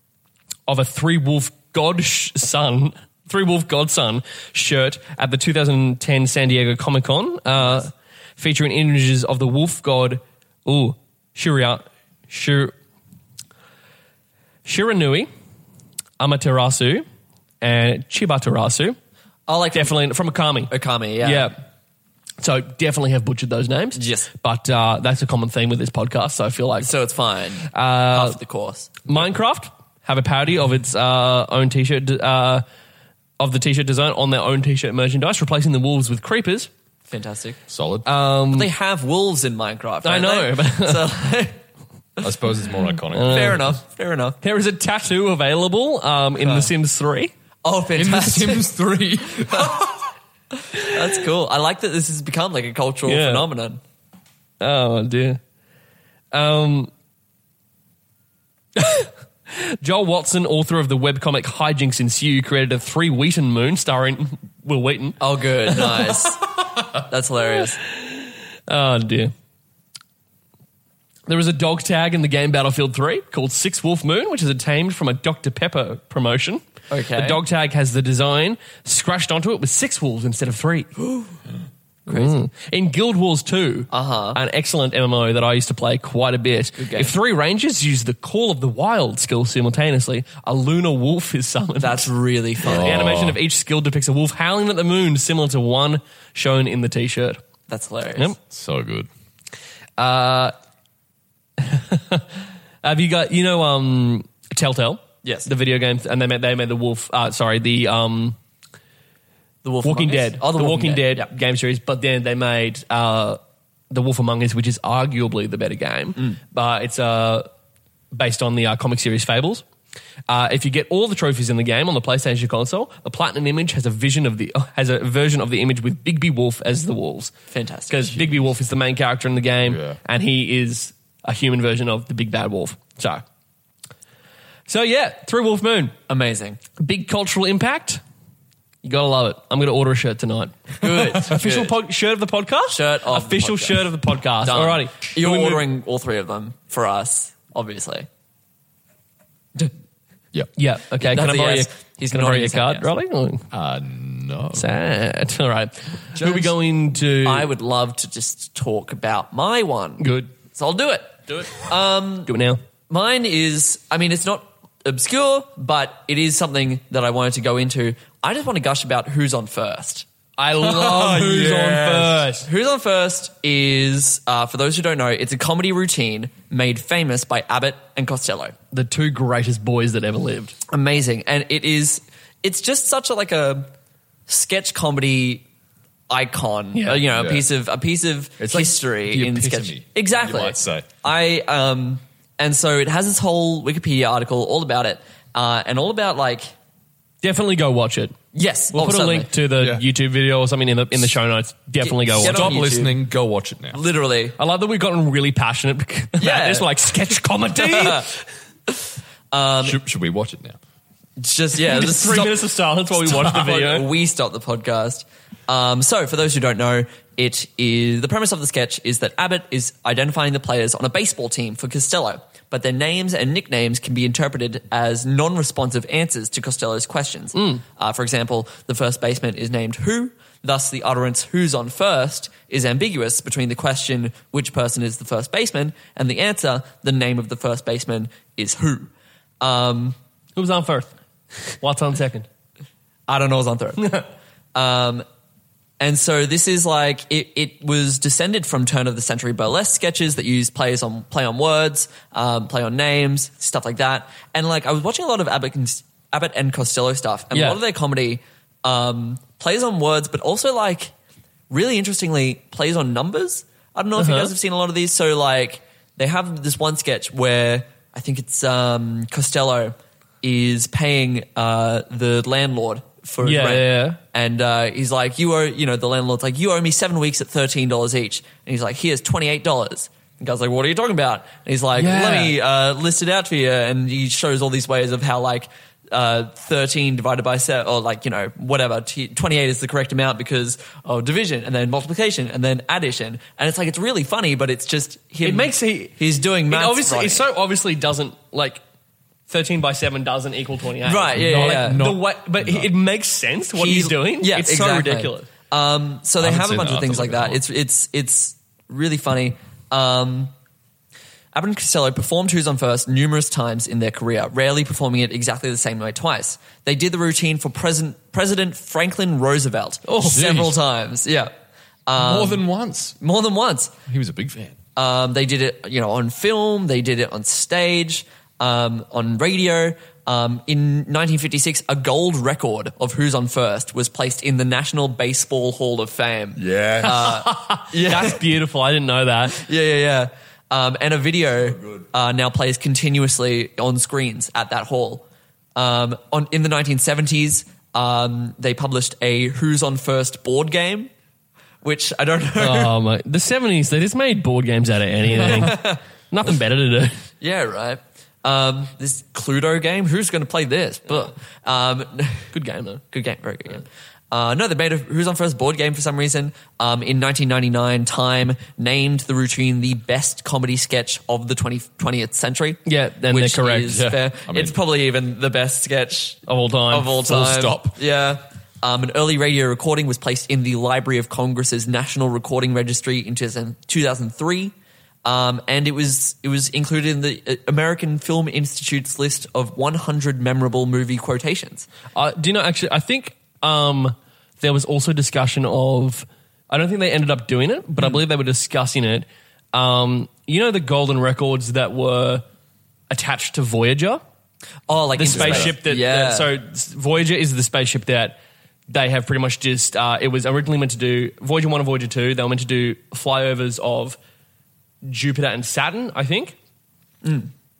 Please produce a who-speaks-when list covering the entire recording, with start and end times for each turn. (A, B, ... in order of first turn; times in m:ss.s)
0:00.7-0:12.7 A
0:14.6-0:15.3 A
0:16.2-0:17.0 A
0:17.6-0:19.0 A
0:19.5-0:19.9 B
0:19.7-0:21.5 A
0:20.7-0:21.5 B
0:22.4-0:26.9 A
0:24.0-0:24.3 B
0:26.8-0:29.0 B
0:27.7-0:28.4 A
0:29.0-0:32.6 A
0:33.4-0:36.7 A
0:37.1-0:37.6 B
0:37.7-0:38.1 C
0:38.0-0:38.7 A
0:38.5-0:41.6 B
0:40.0-0:41.1 A
0:42.2-0:43.6 C
0:43.1-0:43.8 A
0:43.2-0:44.4 B
0:44.4-0:47.3 A
0:46.4-0:46.7 B
0:47.6-0:48.7 B
0:48.0-0:50.0 C
0:50.7-0:53.8 B
0:53.0-0:53.5 A
0:54.6-0:55.4 A
0:56.3-0:56.9 A
0:58.8-1:05.2 A
1:05.2-1:06.4 B
1:05.7-1:06.0 A
1:07.0-1:07.8 B
1:07.9-1:09.3 A
1:11.3-1:16.6 A
1:16.9-1:17.4 B
1:17.1-1:20.9 A
1:21.0-1:21.3 B
1:22.1-1:22.4 B
1:22.1-1:32.1 A
1:23.9-1:24.4 B
1:26.8-1:27.1 B
1:31.8-1:32.9 B
1:32.6-1:33.4 C
1:32.6-1:37.4 A
1:37.7-1:38.3 B
1:38.5-1:39.1 C
1:40.0-1:40.5 A
1:41.6-1:42.2 A
1:42.8-1:48.4 A
1:45.2-1:45.5 B
1:49.6-1:51.3 B
1:49.8-1:57.5 A
1:58.1-1:59.6 A
2:00.3-2:07.3 A
2:07.5-2:08.1 B
2:07.9-2:13.2 A
2:09.6-2:10.0 C
2:14.7-2:15.9 A
2:16.1-2:16.6 B
2:16.8-2:18.0 A
2:18.8-2:25.6 A
2:20.8-2:21.7 B
2:22.7-2:28.1 B
2:30.6-2:33.4 A
2:31.0-2:32.9 B
2:33.5-2:34.7 C
2:34.5-2:37.5 A
2:36.1-2:36.5 C
2:37.2-2:42.3 B
2:40.0-2:40.3 A
2:41.3-2:41.7 A
2:42.2-2:42.6 A
2:42.9-2:50.0 B
2:50.4-2:52.5 A
2:50.7-2:52.1 C
2:51.4-2:58.5 B
2:58.7-3:00.5 A
3:00.7-3:03.7 B
3:04.3-3:05.4 B
3:06.1-3:16.5 B
3:06.7-3:07.0 A
3:07.1-3:07.4 C
3:08.4-3:10.9 C
3:17.2-3:18.2 A
3:18.3-3:19.3 B
3:18.7-3:22.6 A
3:19.6-3:19.8 C
3:21.8-3:23.0 B
3:22.2-3:23.8 C
3:23.7-3:24.3 B
3:24.4-3:28.2 A
3:26.2-3:26.7 B
3:27.5-3:28.1 B
3:29.3-3:29.8 B
3:29.6-3:30.6 C
3:31.2-3:58.9 B
3:31.6-3:33.9 A
3:47.3-3:47.6 A
3:59.4-4:00.0 B
4:00.4-4:00.9 A
4:01.5-4:02.3 A
4:03.1-4:04.0 B
4:03.8-4:04.0 A
4:04.5-4:05.0 B
4:05.8-4:20.9 B
4:17.3-4:17.6 A
4:21.5-4:57.2 B
4:24.0-4:24.3 A
4:33.2-4:34.0 A
4:41.8-4:42.3 A
4:55.2-4:58.6 A
4:59.3-5:05.3 A
5:00.8-5:01.8 B
5:01.1-5:02.7 C
5:03.6-5:10.3 B
5:06.2-5:07.4 C
5:11.3-5:21.3 B
5:19.9-5:20.2 A
5:20.1-5:20.5 C
5:21.9-5:22.4 B
5:21.9-5:23.0 C
5:23.0-5:23.7 B
5:23.9-5:24.6 C
5:24.8-5:38.2 B
5:36.4-5:37.2 C
5:36.8-5:39.4 A
5:39.3-5:45.0 B
5:45.6-5:50.9 B
5:51.6-5:52.7 B
5:52.4-5:57.0 A
5:55.2-5:55.8 B
5:57.2-6:02.3 B
6:02.3-6:02.8 A
6:02.9-6:24.5 B
6:12.6-6:13.8 A
6:13.7-6:14.6 C
6:16.3-6:17.0 A
6:17.0-6:17.8 C
6:25.0-6:31.7 B
6:31.9-6:42.2 A
6:42.9-6:44.0 A
6:44.7-6:46.3 B
6:45.0-6:48.2 A
6:45.1-6:45.5 C
6:48.7-6:54.0 A
6:54.8-6:56.3 A
6:57.0-6:57.3 B